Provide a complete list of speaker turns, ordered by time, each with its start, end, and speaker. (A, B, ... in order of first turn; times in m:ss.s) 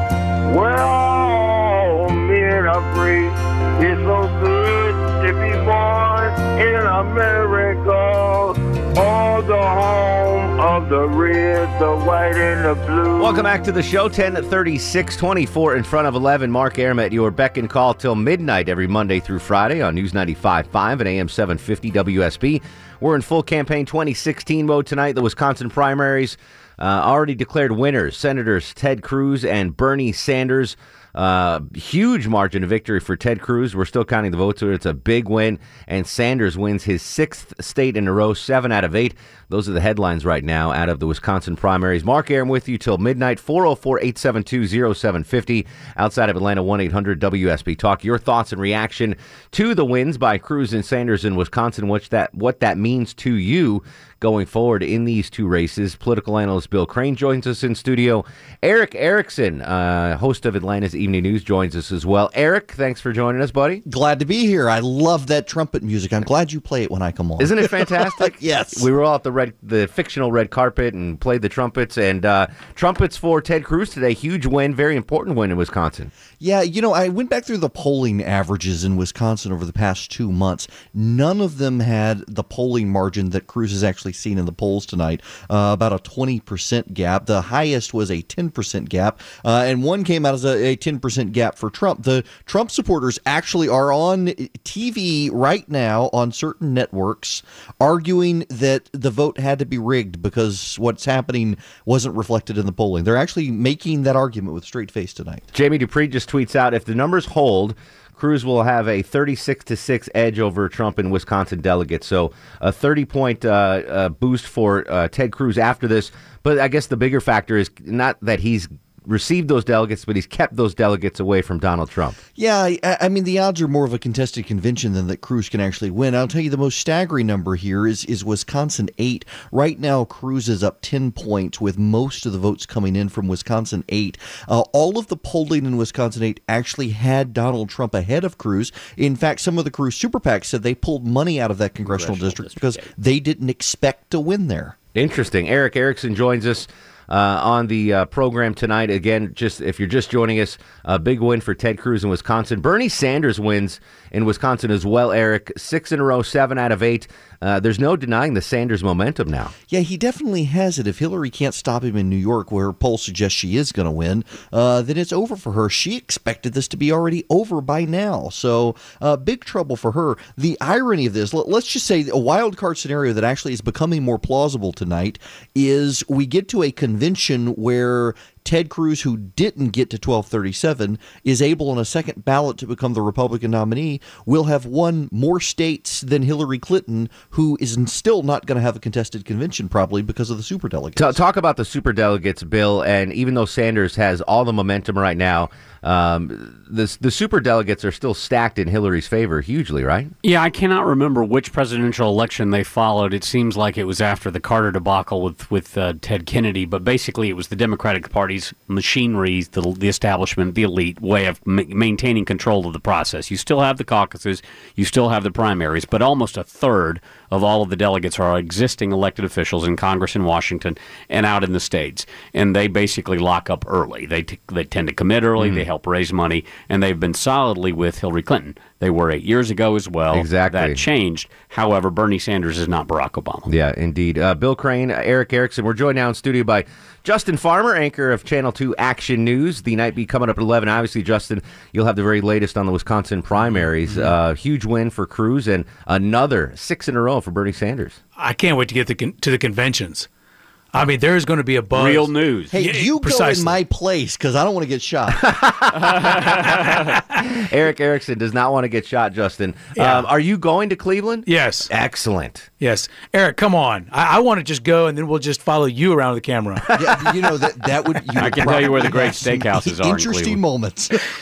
0:00.4-0:13.5 A
0:13.2-1:03.8 B
1:03.8-1:08.9 C
1:07.4-1:16.1 B
1:16.4-1:45.5 C
1:45.5-2:02.2 B
2:02.4-2:24.8 C
2:21.9-2:22.9 D
2:24.9-2:39.5 B
2:39.7-3:11.2 C
3:11.0-3:20.1 B
3:20.2-3:53.5 D
3:45.4-3:45.6 B
3:50.1-3:50.8 B
3:53.5-4:08.0 B
4:08.2-4:10.1 E
4:10.7-4:13.6 E
4:11.7-4:12.6 D
4:12.5-4:15.2 C
4:15.2-4:22.5 B
4:19.8-4:20.1 E
4:21.2-4:21.7 E
4:22.6-4:27.2 E
4:26.7-4:31.0 C
4:28.2-4:30.4 D